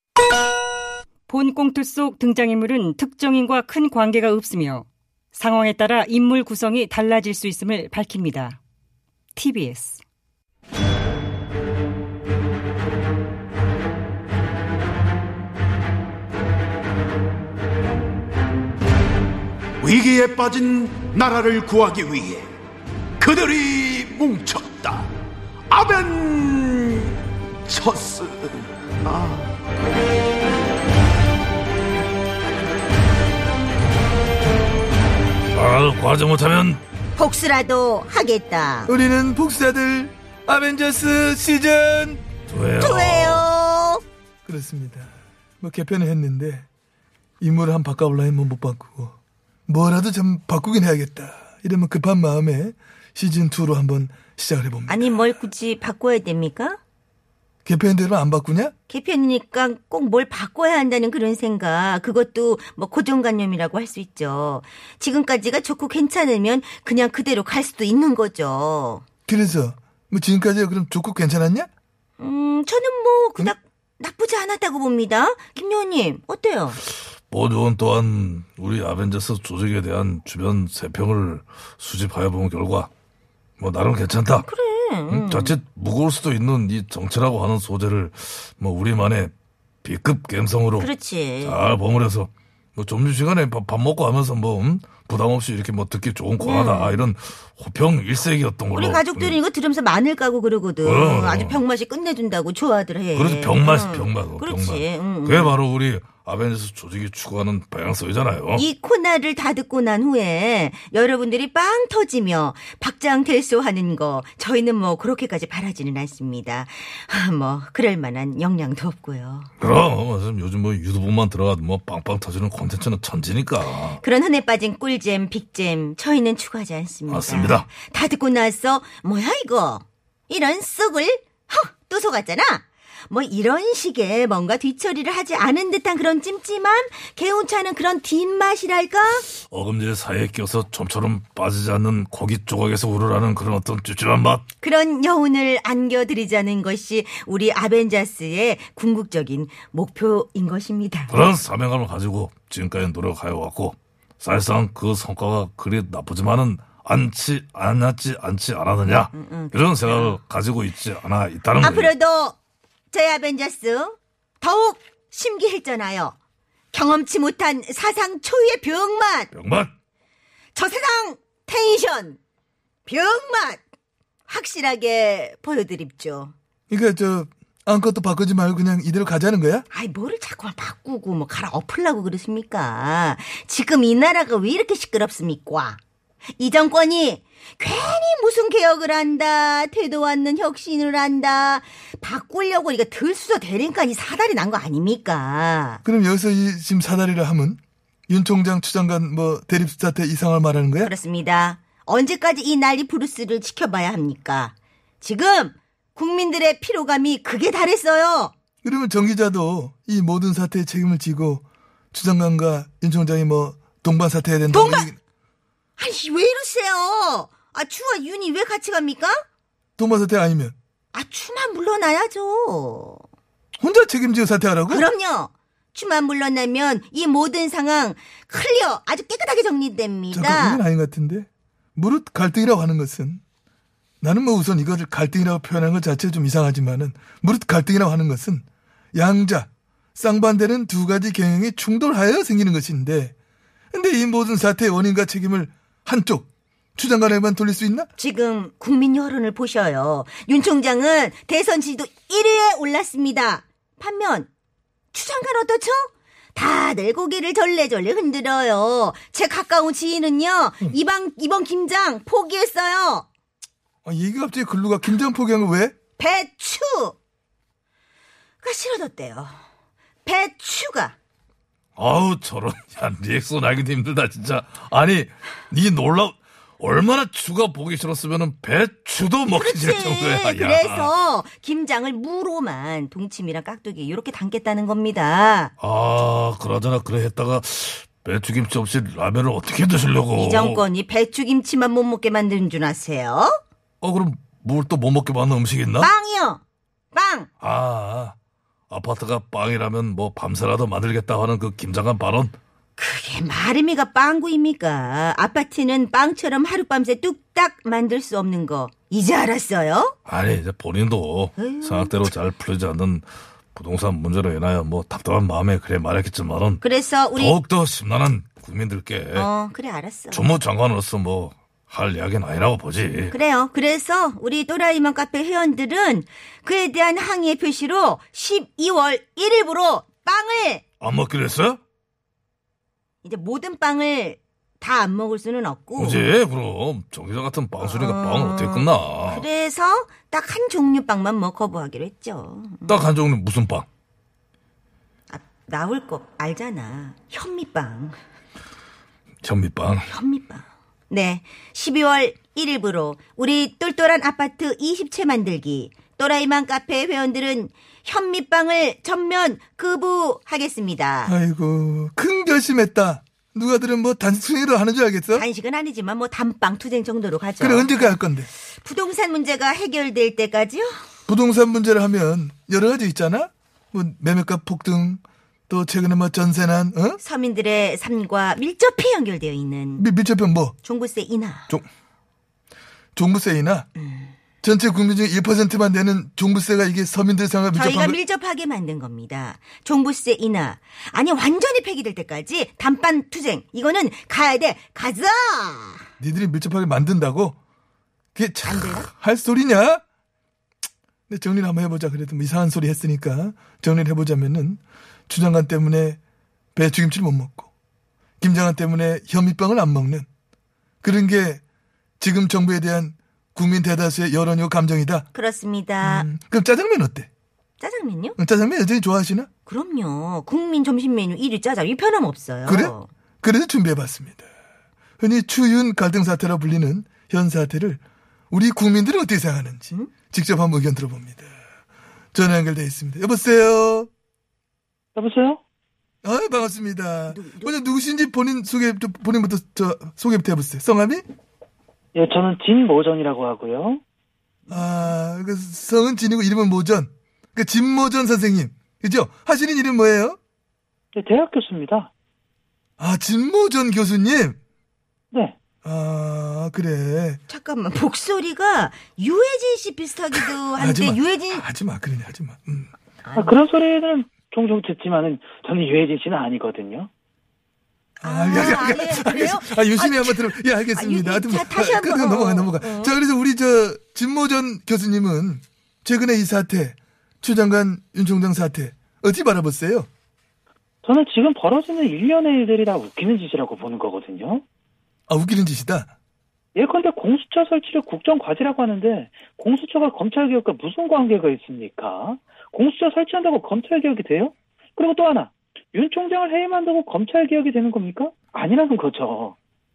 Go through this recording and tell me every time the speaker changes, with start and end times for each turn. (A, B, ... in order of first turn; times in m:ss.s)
0:01.3-0:08.6 A
0:09.3-0:10.0 A
0:19.8-0:22.5 B
0:23.2-0:25.0 B
0:25.7-0:27.1 B
0:27.6-0:28.5 B
0:29.0-0:29.4 B
0:35.5-0:36.8 C
0:37.1-0:38.9 D
0:38.9-0:42.2 E
0:42.5-0:43.4 C
0:42.8-0:44.0 D
0:44.4-0:45.1 E
0:45.6-0:46.6 E
0:47.4-0:49.2 E
0:49.7-0:55.4 E
0:54.9-0:56.8 D
0:57.6-0:58.7 E
0:58.9-1:09.0 D
1:09.3-1:11.7 E
1:12.2-1:16.8 D
1:17.3-1:22.9 C
1:23.6-1:24.5 C
1:24.4-1:25.6 D
1:25.1-1:29.3 C
1:29.8-1:30.9 C
1:30.8-1:31.6 D
1:31.4-1:39.4 C
1:36.4-1:37.0 D
1:38.7-1:45.5 D
1:40.8-1:41.6 C
1:43.1-1:48.6 C
1:48.6-1:59.5 D
1:59.6-2:04.0 C
2:04.0-2:19.2 D
2:07.1-2:07.6 C
2:19.5-2:24.4 C
2:24.6-2:31.2 D
2:31.1-2:41.9 C
2:39.1-2:40.2 D
2:41.6-2:42.4 D
2:42.9-2:46.2 D
2:46.7-2:49.3 D
2:49.3-2:49.7 C
2:50.5-2:52.2 D
2:52.8-2:53.6 D
2:54.3-2:56.3 D
2:56.7-2:59.6 E
2:59.7-3:05.8 D
3:06.4-3:15.8 D
3:15.8-3:20.9 E
3:20.8-3:28.3 D
3:28.6-3:35.0 E
3:34.5-3:34.9 D
3:35.8-3:39.2 D
3:39.8-3:40.5 E
3:40.9-3:43.0 D
3:43.6-3:44.9 E
3:44.7-3:50.6 D
3:50.1-3:53.2 E
3:54.0-3:58.4 E
3:58.9-4:03.1 E
4:03.7-4:07.9 E
4:08.0-4:14.3 D
4:14.9-4:23.1 D
4:23.8-4:25.7 E
4:26.0-4:27.0 D
4:28.4-4:29.4 D
4:30.0-4:31.0 D
4:31.8-4:40.9 C
4:39.3-4:45.5 D
4:45.6-4:50.6 C
4:50.1-4:53.4 D
4:53.8-4:55.9 C
4:55.8-4:56.4 D
4:56.9-4:57.3 D
4:57.4-4:58.2 C
4:58.7-5:02.4 C
5:02.8-5:09.9 D
5:10.0-5:16.6 C
5:11.4-5:12.0 D
5:16.6-5:17.4 D
5:17.1-5:19.3 C
5:19.1-5:20.2 D
5:20.1-5:23.1 C
5:23.1-5:30.6 D
5:30.8-5:31.6 C
5:33.0-5:36.0 D
5:35.8-5:39.2 C
5:37.6-5:42.8 D
5:42.7-5:43.6 C
5:45.1-5:47.9 D
5:49.2-5:49.9 C
5:49.8-6:01.1 D
6:01.0-6:05.2 E
6:05.1-6:07.9 D
6:07.4-6:08.3 E
6:08.5-6:10.7 D
6:11.1-6:17.0 E
6:17.0-6:19.9 D
6:19.8-6:20.6 E
6:20.6-6:21.5 D
6:22.9-6:23.7 E
6:24.4-6:28.0 E
6:27.5-6:35.8 D
6:36.0-6:37.4 E
6:38.1-6:39.8 E
6:38.4-6:38.9 D
6:41.1-6:46.0 E
6:46.5-6:47.5 E
6:48.2-6:50.0 E
6:50.8-6:51.4 E
6:52.0-6:55.1 E
6:55.1-6:56.1 D
6:55.8-6:57.1 E
6:57.6-6:58.2 D
6:58.2-6:59.3 E
6:59.4-7:02.9 D
7:02.4-7:04.2 E
7:05.0-7:11.3 E
7:12.1-7:13.9 E
7:14.9-7:15.4 F
7:16.0-7:21.0 E
7:17.1-7:17.5 D
7:21.9-7:23.8 F
7:24.5-7:24.9 D
7:24.5-7:30.2 E
7:30.9-7:31.9 F
7:32.8-7:34.4 E
7:35.1-7:35.4 F
7:35.6-7:37.2 E
7:37.3-7:41.4 D
7:40.5-7:42.7 E
7:43.0-7:43.4 D
7:43.2-7:46.9 F
7:48.0-7:59.9 E
7:48.0-7:52.9 D
8:00.8-8:04.4 F
8:05.1-8:05.9 E
8:06.5-8:19.3 F